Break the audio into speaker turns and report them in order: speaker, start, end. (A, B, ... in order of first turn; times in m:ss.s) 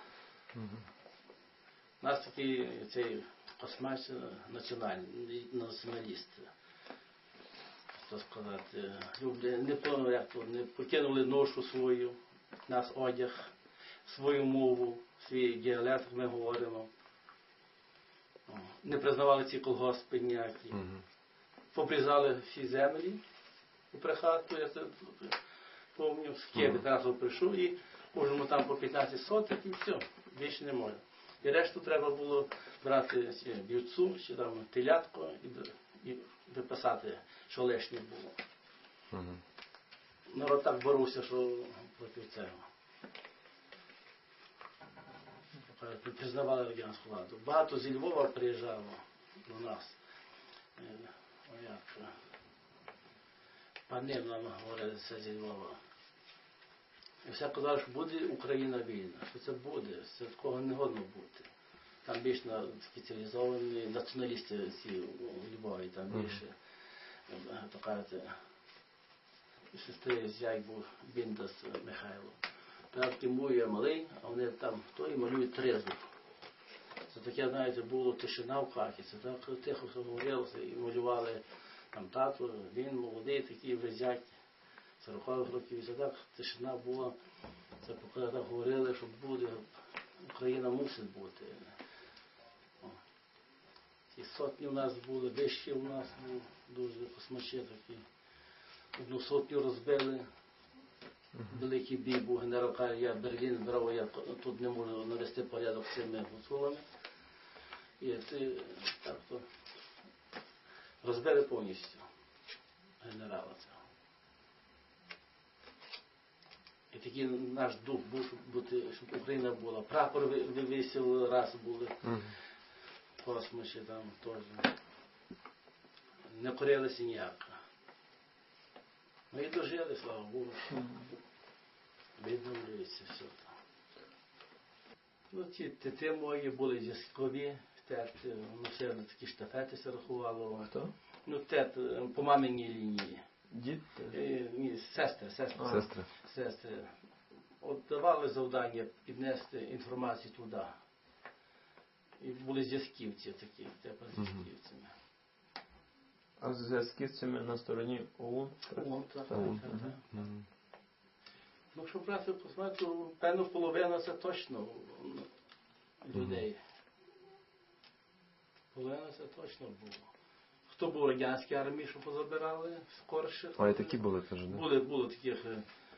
0:00.5-0:00.8 A
0:02.0-0:06.5 B
0:08.0-0:12.2 B
0:12.7-0:13.5 B
0:14.0-0:16.9 B
0:18.5-0:20.8 B
0:20.7-0:21.0 A
0:21.7-0:23.2 B
0:23.9-0:25.4 B
0:25.9-0:38.4 B
0:39.1-0:39.4 A
0:40.3-0:42.6 B
0:45.6-0:50.0 B
0:50.8-0:52.1 B
0:53.9-0:55.8 B
0:57.2-1:01.5 B
1:02.0-1:06.5 B
1:07.3-1:08.4 B
1:09.7-1:12.4 B
1:12.9-1:16.0 B
1:17.1-1:24.3 B
1:25.0-1:27.1 B
1:27.8-1:29.7 B
1:30.2-1:31.7 B
1:34.1-1:38.0 B
1:38.9-1:40.2 B
1:41.5-1:46.8 B
1:48.0-1:49.4 B
1:51.0-1:52.0 B
1:53.0-1:53.8 B
1:56.9-2:02.0 B
2:02.0-2:02.3 A
2:03.2-2:04.7 B
2:06.3-2:07.5 B
2:09.3-2:10.7 B
2:10.7-2:11.0 C
2:12.2-2:13.5 B
2:15.3-2:20.7 B
2:21.2-2:23.2 B
2:23.5-2:24.2 C
2:24.1-2:26.9 B
2:25.6-2:25.8 C
2:25.6-2:26.1 A
2:27.6-2:30.7 B
2:32.2-2:34.9 B
2:34.2-2:34.4 A
2:36.4-2:39.9 C
2:38.7-2:40.0 B
2:39.3-2:40.4 A
2:41.7-2:45.3 B
2:46.0-2:46.6 B
2:46.1-2:46.4 A
2:48.7-2:50.1 B
2:50.7-2:55.6 B
2:53.6-2:54.6 A